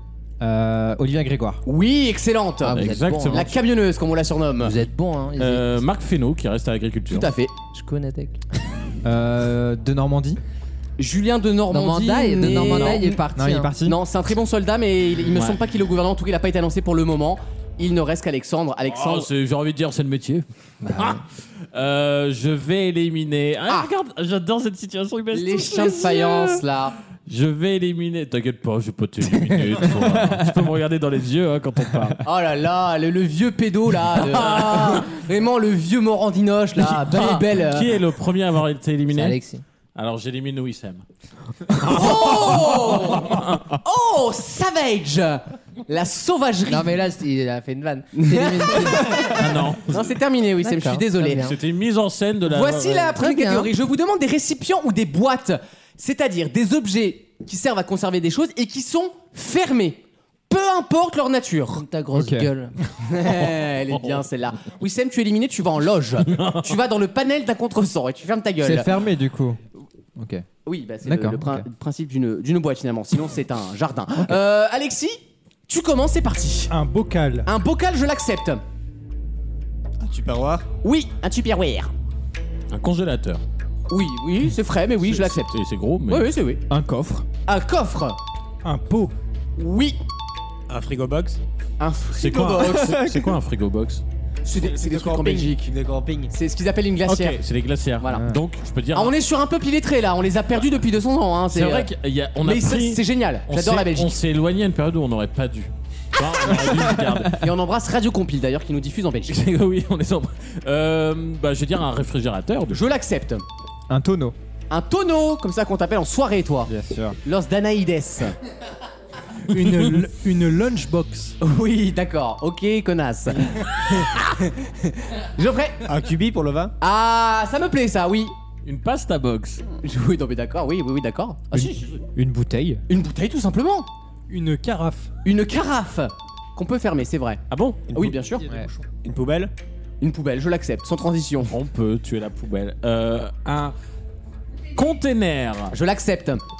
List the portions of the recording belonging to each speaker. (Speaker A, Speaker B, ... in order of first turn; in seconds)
Speaker A: 0.4-1.6, 9.0-10.4, 13.3-14.0, 29.9-30.5, 62.1-62.5, 68.6-69.6, 70.2-70.4, 71.0-71.7, 86.7-87.2, 92.6-93.3, 113.9-114.3, 116.7-117.2, 131.5-132.8
Speaker B: 1.6-4.7, 7.1-7.5, 11.0-13.2, 13.8-19.3, 25.3-26.9, 32.2-38.0, 41.8-46.9, 48.1-51.5, 52.5-61.8, 63.0-68.9, 70.7-76.7, 77.5-78.6, 80.8-81.9, 83.9-85.5, 86.1-86.6, 87.5-88.2, 89.6-90.0, 91.8-93.0, 94.4-95.7, 96.3-97.4, 98.0-98.2, 98.9-101.9, 102.4-104.1, 107.4-109.4, 112.7-113.4, 114.7-116.7, 117.2-118.3, 121.4-125.9, 126.8-128.3, 129.8-132.0, 132.9-133.9, 135.2-137.4, 137.9-138.4, 140.0-141.5, 145.7-146.4
Speaker C: 2.6-3.5, 4.6-5.8, 7.7-8.4, 11.7-13.7, 20.8-21.2, 39.1-39.6, 46.7-49.4, 50.6-51.5, 53.1-53.7, 61.7-62.7
Speaker D: 2.7-3.5, 5.4-7.3, 12.7-13.0, 18.8-20.4, 20.9-21.2, 21.7-26.6, 27.3-32.2, 34.1-35.1, 36.8-39.4, 39.9-41.0, 41.7-43.7, 49.4-50.1, 51.4-53.1, 63.4-64.2, 66.3-66.7, 82.7-83.4, 85.0-86.3, 92.1-94.0, 97.0-99.1, 101.5-107.4, 109.3-112.8, 128.6-129.6, 137.5-137.9, 141.5-143.7, 144.7-145.7
Speaker E: 76.7-77.5, 88.6-89.1, 119.5-121.4, 134.3-135.1, 138.4-138.8
Speaker F: 80.0-80.7, 90.7-91.4, 94.5-96.3, 125.8-126.7, 137.9-138.2, 139.0-139.5